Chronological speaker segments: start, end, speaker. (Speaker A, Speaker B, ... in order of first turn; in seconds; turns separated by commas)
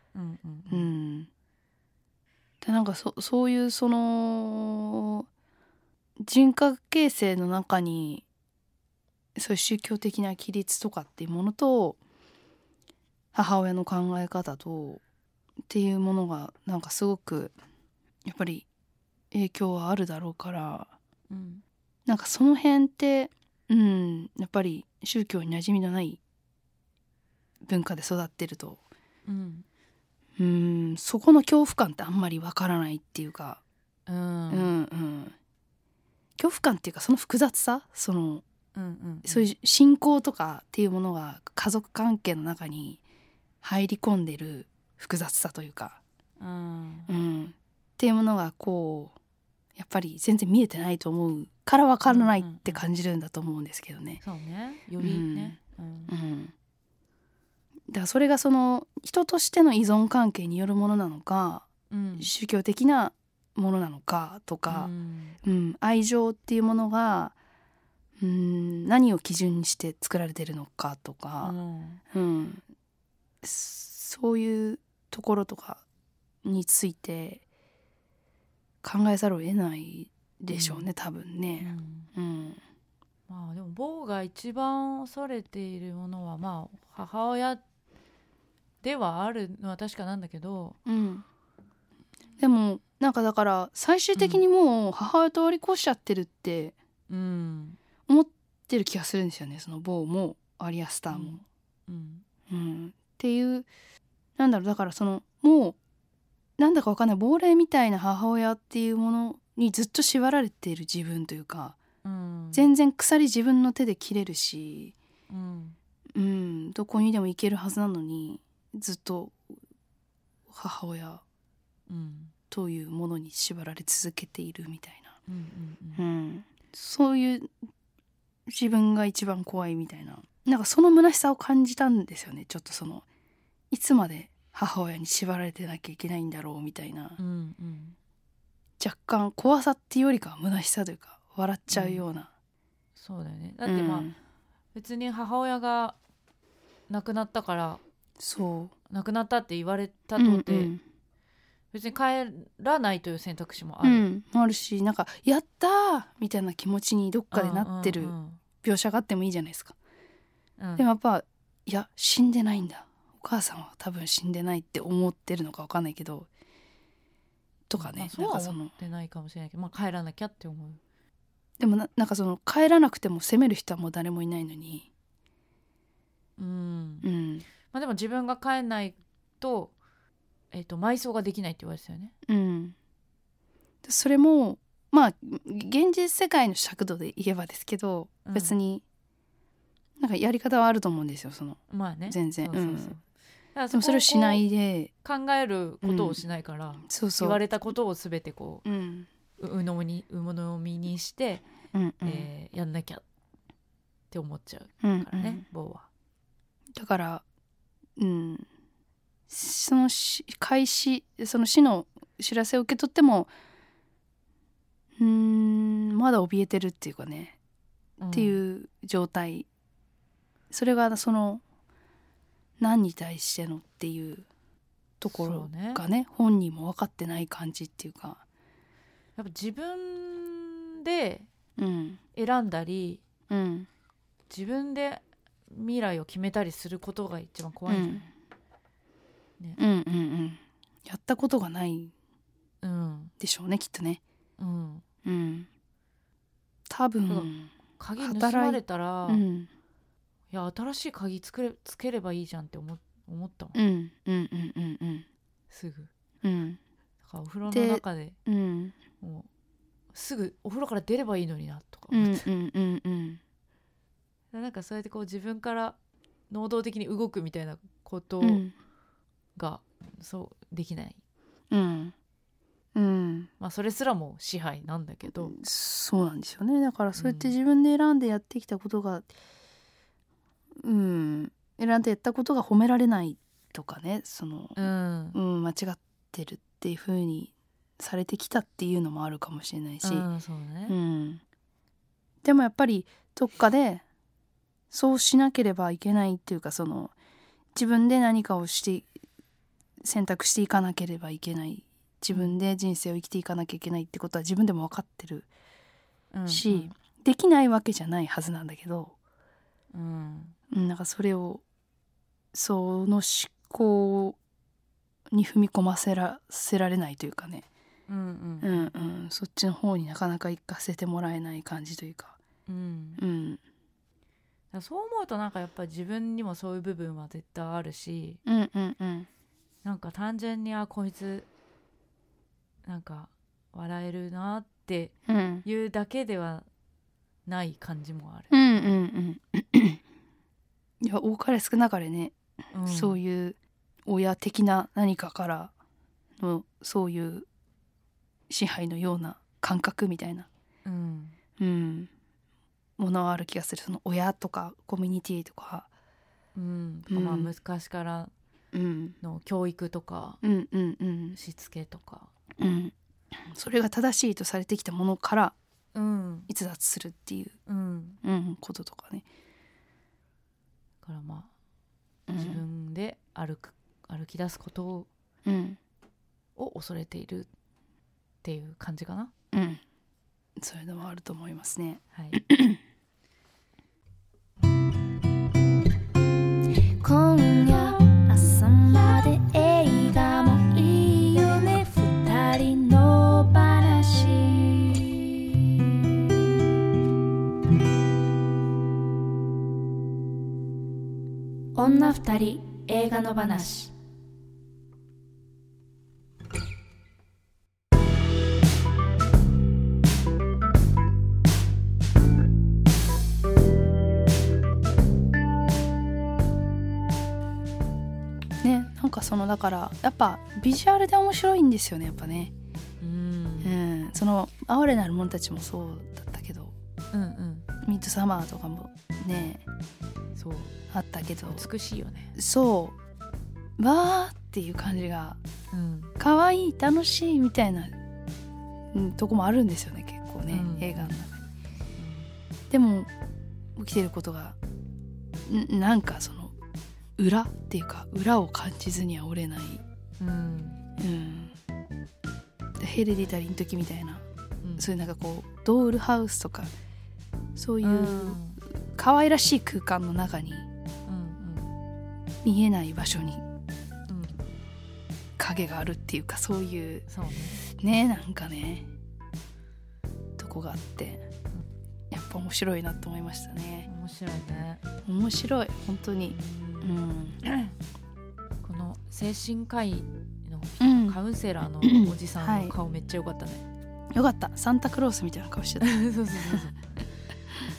Speaker A: 0.1-0.9, Speaker B: 0.7-1.3, Speaker B: 2.6-5.3, Speaker B: 6.2-8.2, Speaker B: 9.4-12.0, Speaker B: 13.3-15.0, Speaker B: 15.7-17.6, Speaker B: 18.2-18.7, Speaker B: 19.3-20.9, Speaker A: 21.3-21.6, Speaker B: 22.1-26.2, Speaker B: 27.6-28.8, Speaker A: 29.3-29.7, Speaker B: 30.4-33.6, Speaker A: 34.1-34.7, Speaker B: 34.5-35.4, Speaker B: 36.4-38.4, Speaker A: 38.8-39.5, Speaker B: 39.2-43.0, Speaker B: 43.6-46.0, Speaker A: 46.4-47.1, Speaker B: 47.1-49.1, Speaker B: 49.8-54.2, Speaker A: 52.1-52.8, Speaker A: 54.2-56.1, Speaker B: 55.0-55.6, Speaker B: 56.1-56.5, Speaker B: 57.9-61.7, Speaker A: 61.9-62.3, Speaker B: 62.2-64.9, Speaker A: 64.7-65.4, Speaker B: 65.4-67.3, Speaker B: 68.2-71.6, Speaker A: 71.4-72.0, Speaker B: 72.1-72.6, Speaker B: 73.4-75.8, Speaker B: 76.4-77.4, Speaker B: 78.8-82.6, Speaker A: 80.5-80.9, Speaker A: 81.6-82.1, Speaker A: 83.3-87.6, Speaker A: 88.8-90.8, Speaker B: 90.9-91.2, Speaker B: 92.4-96.8, Speaker A: 94.2-94.4, Speaker A: 97.1-97.8, Speaker B: 98.1-101.4, Speaker A: 101.1-102.2, Speaker B: 102.5-103.7, Speaker B: 104.4-105.8, Speaker B: 106.6-111.8, Speaker A: 112.0-112.7, Speaker B: 112.5-115.0, Speaker A: 115.3-115.8, Speaker B: 116.2-119.4, Speaker B: 120.5-121.2, Speaker A: 121.9-122.3, Speaker B: 122.5-125.2, Speaker A: 125.3-126.1, Speaker B: 126.0-127.5, Speaker B: 128.5-133.1, Speaker B: 133.7-137.2, Speaker A: 137.2-137.9, Speaker B: 138.8-142.3, Speaker A: 141.7-142.0, Speaker A: 143.0-144.1, Speaker B: 143.7-144.1, Speaker A: 144.8-146.0, Speaker A: 146.9-147.8, Speaker B: 148.2-148.7, Speaker A: 148.9-150.7, Speaker B: 150.2-150.8, Speaker A: 151.7-154.1, Speaker B: 153.8-159.8, Speaker A: 157.3-158.4, Speaker A: 160.6-160.9, Speaker B: 160.8-166.3, Speaker B: 167.7-168.7, Speaker A: 167.8-170.8, Speaker B: 171.6-174.9, Speaker A: 176.4-177.1, Speaker B: 177.0-177.5, Speaker A: 177.7-179.7, Speaker A: 180.5-182.1, Speaker B: 182.3-182.8, Speaker B: 183.8-188.8, Speaker A: 188.2-188.6, Speaker B: 190.0-192.9, Speaker A: 191.7-193.0, Speaker A: 193.6-194.4, Speaker B: 193.7-194.9, Speaker A: 195.0-198.7, Speaker B: 195.8-196.2, Speaker B: 196.9-197.4, Speaker B: 198.7-199.1, Speaker A: 199.4-201.4, Speaker B: 201.7-202.3, Speaker A: 202.0-203.0, Speaker A: 204.1-205.9, Speaker B: 204.8-205.4, Speaker B: 206.8-207.2, Speaker B: 208.0-208.5, Speaker B: 209.3-213.3, Speaker B: 215.0-217.4, Speaker A: 218.0-218.4, Speaker B: 218.1-219.5, Speaker B: 220.5-221.4, Speaker B: 222.6-224.3, Speaker B: 225.0-228.2, Speaker A: 225.1-225.8, Speaker A: 229.2-231.3, Speaker B: 231.6-232.0, Speaker A: 232.2-233.0, Speaker B: 233.3-233.7, Speaker A: 234.3-238.1, Speaker B: 237.7-238.1, Speaker B: 239.6-241.9, Speaker A: 242.6-243.1, Speaker B: 243.2-244.0, Speaker A: 244.4-244.8, Speaker B: 245.1-245.5, Speaker B: 246.7-249.5, Speaker A: 247.1-249.2, Speaker A: 250.3-253.6, Speaker B: 253.6-255.1, Speaker A: 255.5-255.9, Speaker B: 256.2-256.6, Speaker A: 257.0-258.2, Speaker B: 257.5-258.8, Speaker A: 259.0-259.3, Speaker A: 259.9-262.3, Speaker B: 261.9-263.2, Speaker A: 264.3-265.8, Speaker A: 266.3-268.4, Speaker B: 268.2-268.5, Speaker A: 269.4-271.0, Speaker B: 271.5-271.9, Speaker B: 272.8-273.3, Speaker A: 273.4-275.4, Speaker B: 275.1-279.1, Speaker A: 276.9-277.4, Speaker B: 280.6-290.1, Speaker A: 284.6-285.2, Speaker A: 289.8-290.8, Speaker B: 290.7-291.2, Speaker B: 292.2-293.8, Speaker B: 294.7-296.9, Speaker B: 297.6-298.9, Speaker B: 299.8-305.3, Speaker A: 302.1-302.4, Speaker A: 306.1-306.7, Speaker B: 306.3-309.0, Speaker A: 309.7-310.4, Speaker B: 310.5-311.4, Speaker B: 312.3-314.2, Speaker B: 315.1-317.5, Speaker A: 317.9-318.7, Speaker B: 318.4-322.2, Speaker A: 322.5-323.0, Speaker B: 323.0-323.4, Speaker A: 324.5-328.2, Speaker B: 328.3-329.1, Speaker A: 329.6-331.3, Speaker A: 332.7-336.5, Speaker B: 335.1-335.4, Speaker A: 337.3-338.7, Speaker B: 338.3-339.8, Speaker B: 340.8-345.5, Speaker A: 342.5-343.0, Speaker B: 346.2-347.3, Speaker B: 348.3-350.3, Speaker A: 350.6-351.2, Speaker B: 351.4-351.9, Speaker B: 352.8-355.7, Speaker A: 356.4-358.1, Speaker B: 356.9-357.3, Speaker B: 358.5-359.0, Speaker A: 359.0-360.2, Speaker B: 360.2-361.2, Speaker A: 361.1-362.1, Speaker B: 362.4-365.4, Speaker A: 365.7-366.3, Speaker B: 366.3-367.4, Speaker A: 367.5-368.0, Speaker B: 368.0-369.1, Speaker A: 370.8-371.3, Speaker B: 372.1-372.4, Speaker A: 372.1-374.9, Speaker B: 375.3-375.6, Speaker A: 376.4-377.3, Speaker A: 378.2-379.1, Speaker B: 379.3-379.6, Speaker B: 380.4-382.6, Speaker A: 381.9-382.2, Speaker C: 386.8-395.2, Speaker C: 401.6-403.7, Speaker B: 418.4-422.3, Speaker A: 422.8-423.6, Speaker B: 423.4-426.6, Speaker A: 426.9-427.5, Speaker B: 427.6-429.4, Speaker A: 430.2-430.5, Speaker B: 430.7-431.5, Speaker A: 431.3-432.2, Speaker B: 432.2-432.8, Speaker B: 433.6-435.2, Speaker A: 435.5-435.9, Speaker B: 436.0-437.7, Speaker B: 438.7-441.2, Speaker A: 440.3-441.0, Speaker A: 441.8-442.1, Speaker B: 442.5-442.9, Speaker B: 443.6-444.4, Speaker B: 445.3-446.4, Speaker B: 447.0-449.6, Speaker A: 450.0-450.6, Speaker B: 450.8-451.4, Speaker B: 452.6-454.1, Speaker A: 454.4-454.7, Speaker B: 454.6-456.5, Speaker B: 457.4-460.5, Speaker A: 457.6-458.4, Speaker A: 460.9-461.6, Speaker B: 462.2-463.2, Speaker A: 463.9-464.2, Speaker B: 465.2-466.9, Speaker A: 466.9-467.5, Speaker B: 467.5-468.7, Speaker B: 470.2-471.1, Speaker B: 471.9-473.7, Speaker A: 473.7-474.6, Speaker B: 474.9-477.3, Speaker A: 476.1-477.6, Speaker A: 478.4-483.4, Speaker B: 480.6-481.0, Speaker B: 481.6-482.6, Speaker B: 483.9-486.5, Speaker A: 485.6-486.7